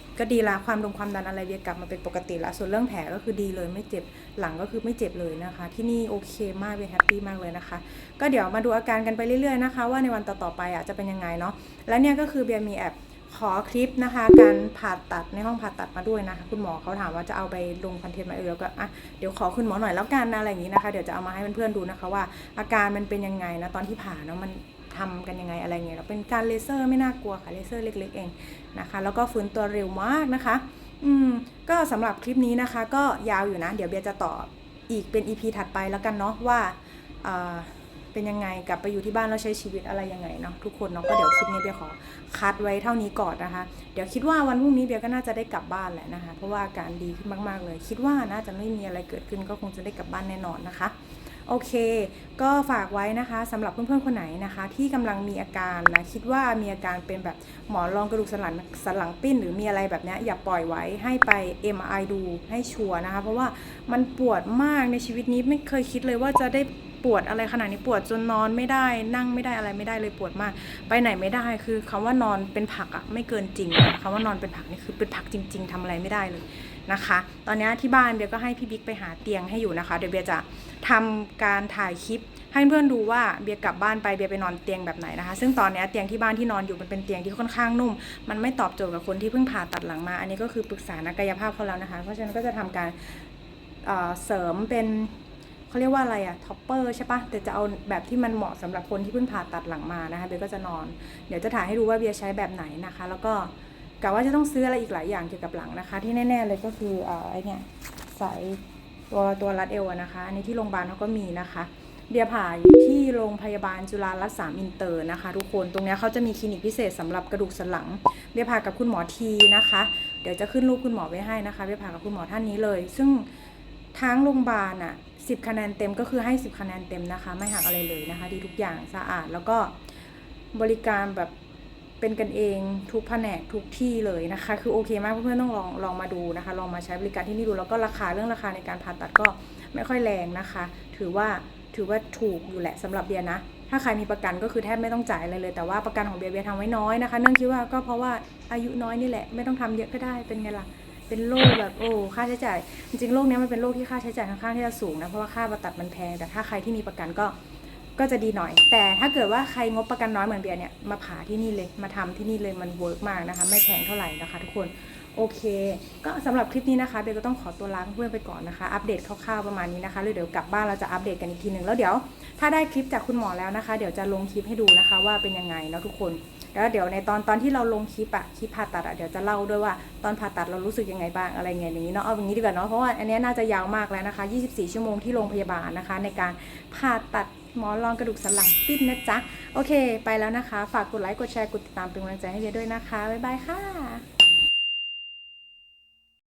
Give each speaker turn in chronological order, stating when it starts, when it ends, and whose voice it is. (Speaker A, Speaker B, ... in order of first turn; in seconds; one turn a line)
Speaker A: 0.2-50.9
Speaker A: 51.5-93.3
Speaker A: 93.8-95.2
Speaker A: 95.7-123.3
Speaker A: 124.0-129.8
Speaker A: 130.5-131.3
Speaker A: 132.0-157.3
Speaker A: 158.0-194.0